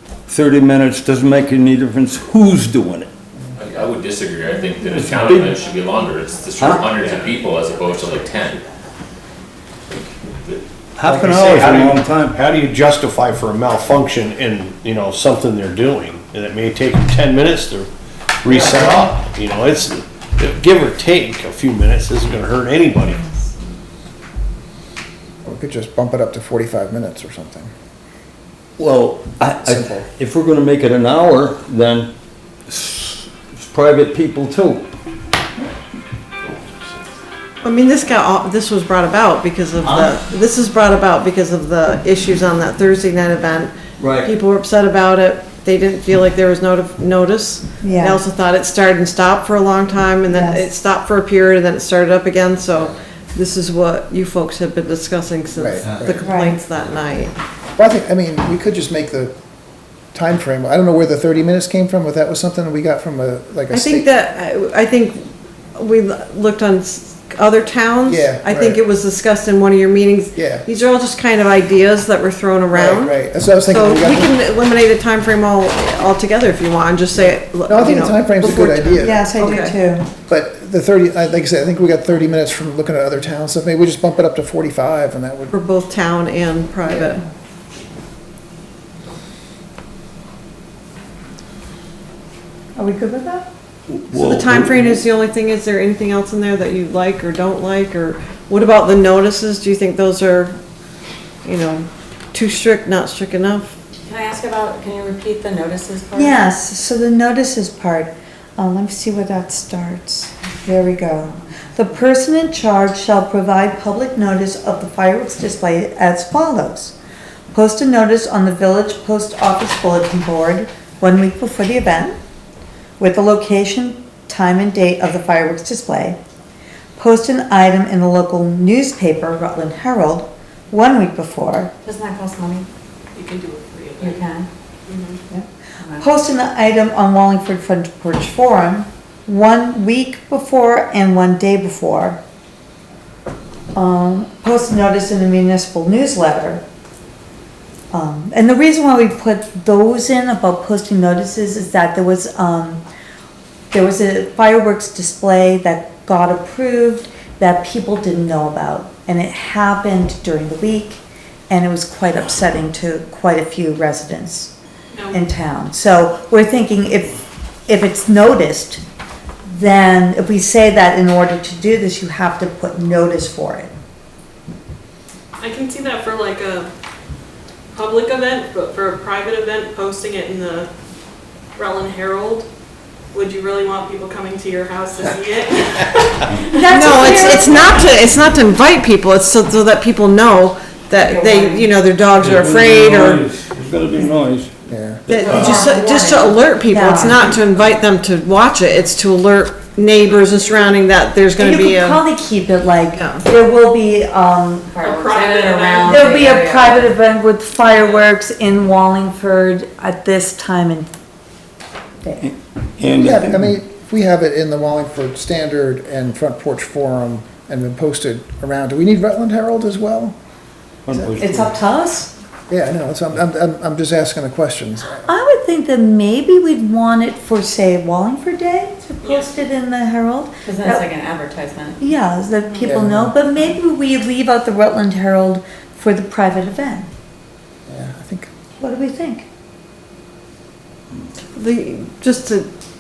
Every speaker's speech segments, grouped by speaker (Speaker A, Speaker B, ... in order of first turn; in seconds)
Speaker A: 0.3-3.1, 4.9-5.6, 6.6-6.9, 11.0-12.4, 28.8-32.1, 32.7-34.9, 39.8-40.1, 44.0-44.3, 93.9-95.0, 192.1-194.5, 195.1-195.5, 212.2-213.6, 220.9-221.5
Speaker B: 3.6-8.6, 36.5-36.8
Speaker C: 7.8-8.3, 133.1-134.3, 134.9-135.2, 164.9-165.2, 175.4-176.7, 177.7-180.7, 181.6-182.5, 183.1-187.8, 200.1-200.5, 204.8-206.0, 207.7-208.0, 229.0-229.3
Speaker D: 11.1-17.9, 18.4-23.3
Speaker E: 25.4-27.7, 29.7-30.0, 55.5-56.2, 57.8-59.3, 60.1-64.1, 68.0-68.8, 70.3-70.7, 72.7-74.3, 77.7-79.2, 80.3-85.5, 194.7-195.0, 213.0-220.2, 220.9-221.2, 222.5-225.1, 232.6-233.3, 237.7-238.3
Speaker F: 37.6-57.3, 63.7-79.8, 85.5-87.2, 94.1-100.6, 101.4-103.8, 186.7-193.3, 195.1-202.0, 202.9-203.2, 241.3-242.5
Speaker G: 47.8-48.2, 50.3-50.6, 56.2-56.6, 79.0-80.1, 92.8-93.5, 106.1-117.0, 117.5-122.2, 123.0-126.2, 127.0-131.7, 135.3-142.2, 143.7-146.6, 147.9-152.8, 153.7-164.5, 165.1-168.8, 169.5-173.7, 186.5-187.8, 195.3-195.7, 196.7-197.2, 201.4-204.8, 205.8-210.9, 212.0-212.3, 221.2-222.1, 225.1-230.9, 231.8-236.9, 238.6-239.3
Speaker H: 104.0-106.4, 131.8-132.7, 134.0-134.5, 135.8-136.1, 191.0-191.7, 195.2-196.6, 204.7-206.9, 230.4-231.8